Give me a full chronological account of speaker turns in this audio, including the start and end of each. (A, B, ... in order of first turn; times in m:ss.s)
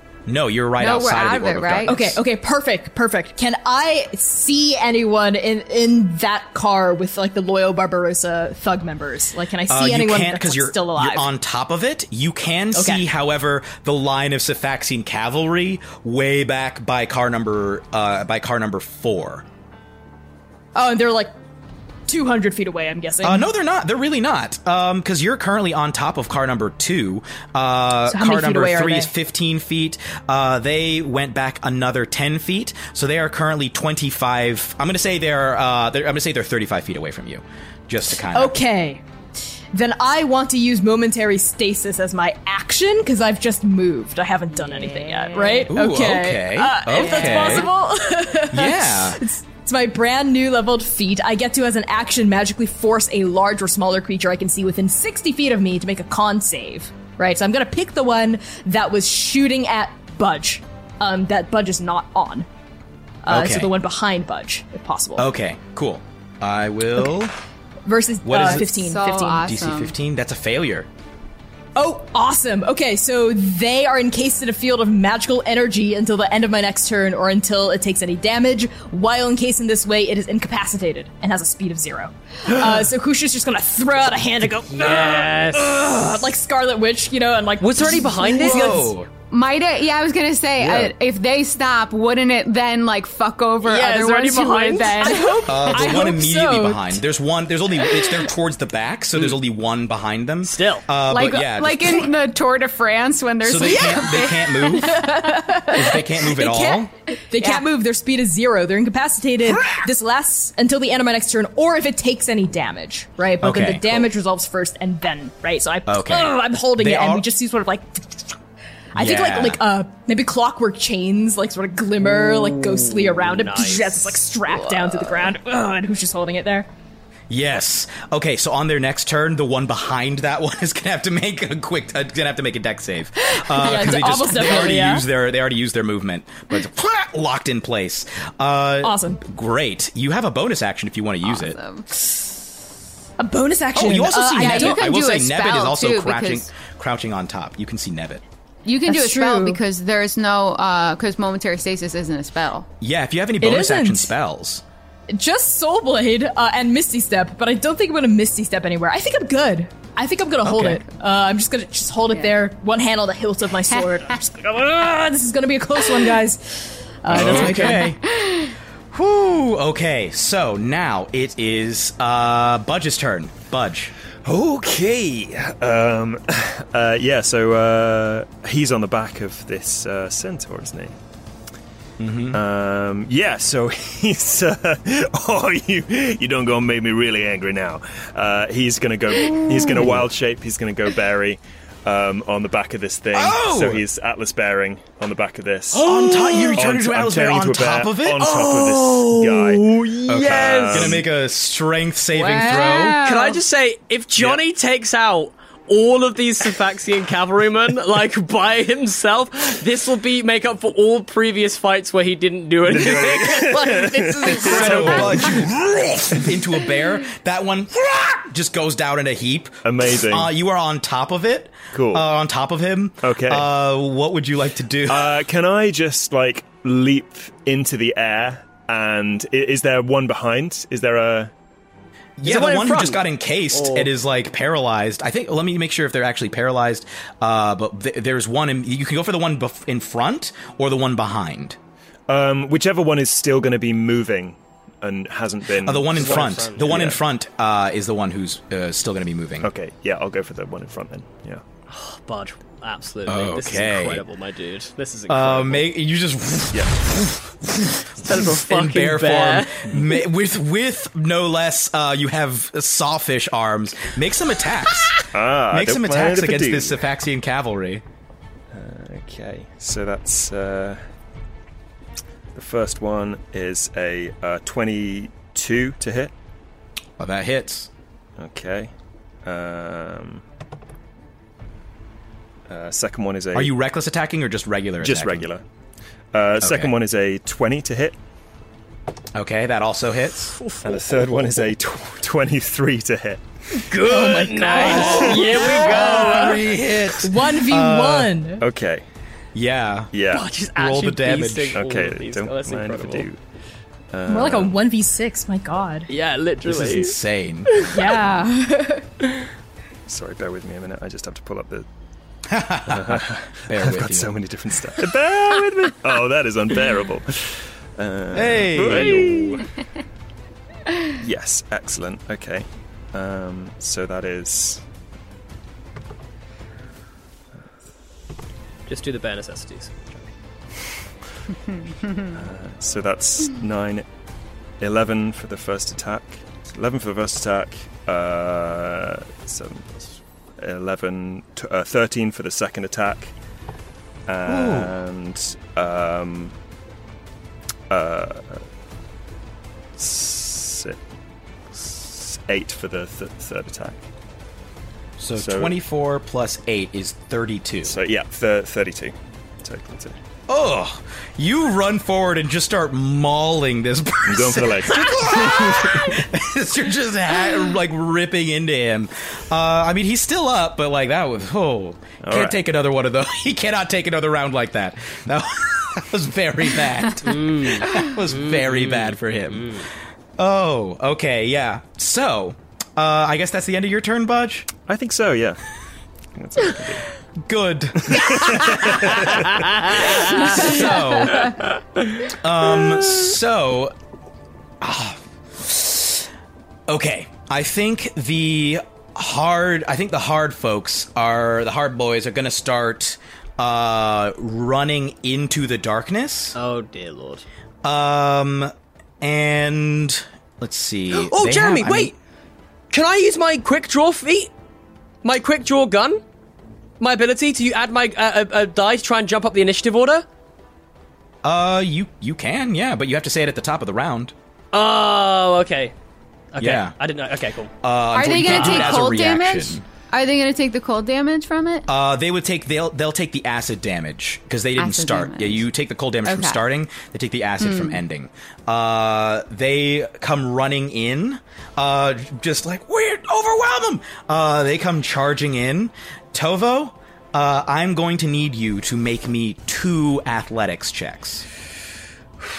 0:00.3-0:02.2 A
0:00.8-0:02.0 B
0:01.8-0:11.3 C
0:09.7-0:19.4 A
0:12.7-0:13.0 C
0:20.7-0:21.3 C
0:22.1-0:23.5 C
0:23.2-0:38.5 A
0:28.1-0:29.1 C
0:38.3-0:39.0 C
0:39.7-1:02.5 C
0:45.7-0:47.7 A
0:48.5-0:49.2 A
1:03.2-1:05.3 C
1:03.3-1:03.7 A
1:05.2-1:07.3 A
1:07.8-1:09.5 C
1:08.2-1:08.8 A
1:08.4-1:09.9 B
1:09.4-1:10.9 A
1:11.8-1:28.9 C
1:24.7-1:25.7 D
1:27.6-1:28.9 D
1:28.2-1:29.1 A
1:29.3-1:35.4 B
1:30.6-1:30.9 A
1:33.6-1:35.3 D
1:35.0-1:37.0 C
1:35.4-1:42.1 A
1:40.4-1:40.8 D
1:41.1-1:44.9 B
1:43.4-1:45.1 A
1:44.6-1:58.3 C
1:45.7-1:46.9 A
1:47.4-1:47.6 B
1:49.4-1:49.9 A
1:53.4-1:54.1 A
1:55.9-1:57.3 A
1:58.9-2:06.7 C
1:58.9-1:59.6 A
2:02.3-2:04.3 D
2:07.3-2:21.6 A
2:13.4-2:15.0 C
2:18.8-2:19.2 C
2:21.2-2:21.8 B
2:23.2-2:24.9 C
2:23.7-2:28.2 A
2:24.3-2:26.5 B
2:28.6-2:32.7 B
2:28.8-2:29.6 C
2:32.8-2:34.6 A
2:33.4-2:34.1 C
2:35.1-2:47.9 C
2:40.4-2:40.8 A
2:47.1-2:48.0 A
2:48.2-2:48.5 B
2:48.9-2:53.9 A
2:54.2-3:01.0 E
3:02.0-3:02.4 A
3:02.3-3:21.0 E
3:09.5-3:10.1 A
3:13.1-3:13.8 A
3:15.7-3:18.4 A
3:18.2-3:21.0 D
3:20.1-3:23.1 A
3:22.2-3:35.4 D
3:22.4-3:23.4 B
3:24.2-3:24.4 E
3:32.6-3:35.5 E
3:34.2-3:45.2 A
3:39.6-3:40.3 E
3:41.7-3:42.0 E
3:43.0-3:43.5 E
3:44.9-3:51.3 E
3:52.2-4:01.6 A
3:52.2-3:53.9 D
4:02.1-4:07.0 E
4:05.6-4:09.5 A
4:05.9-4:07.0 D
4:09.4-4:11.4 E
4:11.7-4:15.7 D
4:13.0-4:14.0 A
4:15.1-4:27.8 A
4:18.0-4:19.6 D
4:25.1-4:26.8 E
4:28.5-4:30.8 E
4:32.3-4:36.1 E
4:37.0-4:37.7 A
4:38.2-4:38.7 E
4:39.2-4:40.2 E
4:42.5-4:43.6 E
4:43.3-4:45.3 A
4:44.8-4:45.4 E
4:46.1-4:48.0 E
4:46.4-4:46.7 A
4:49.1-4:50.4 A
4:50.4-4:50.9 D
4:50.6-4:55.7 E
4:53.5-4:56.4 D
4:53.9-4:54.9 C
4:54.5-4:58.2 A
4:56.9-4:58.4 C
4:58.4-4:58.8 E
4:59.3-4:59.9 A
4:59.9-5:00.2 E
5:00.1-5:03.1 D
5:00.5-5:01.6 A
5:01.5-5:03.2 E
5:03.9-5:04.6 E
5:04.0-5:05.9 C
5:05.9-5:07.0 D
5:06.4-5:07.7 A
5:07.5-5:07.8 D
5:07.7-5:08.8 C
5:09.9-5:11.7 E
5:12.3-5:14.1 A
5:12.7-5:19.5 E
5:18.1-5:19.4 A
5:21.0-5:24.6 E
5:28.7-5:30.0 D
5:32.1-5:33.8 E
5:34.6-5:43.1 E
5:44.1-5:46.3 E
5:44.2-5:44.7 A
5:47.7-5:48.4 E
5:49.8-5:50.8 E
5:51.5-5:53.8 E
5:55.0-5:57.8 A
5:55.2-5:55.5 E
5:57.6-6:00.0 E
6:00.3-6:24.5 A
6:04.0-6:06.0 E
6:12.0-6:12.4 E
6:17.0-6:19.6 D
6:24.6-6:25.4 E
6:26.1-6:26.9 E
6:27.2-6:31.4 A
6:27.8-6:29.9 E
6:32.0-6:33.7 A
6:34.6-6:36.1 A
6:36.7-6:46.4 A
6:46.3-6:47.2 D
6:47.6-6:52.0 A
6:50.9-6:51.9 D
6:52.7-6:54.3 D
6:55.0-6:56.0 D
6:56.8-7:00.0 D
7:01.2-7:04.1 A
7:04.5-7:05.7 D
7:06.3-7:07.5 D
7:06.4-7:06.7 A
7:07.6-7:09.6 A
7:07.9-7:11.6 B
7:11.7-7:31.2 A
7:14.6-7:15.4 B
7:16.0-7:16.4 B
7:17.4-7:17.8 B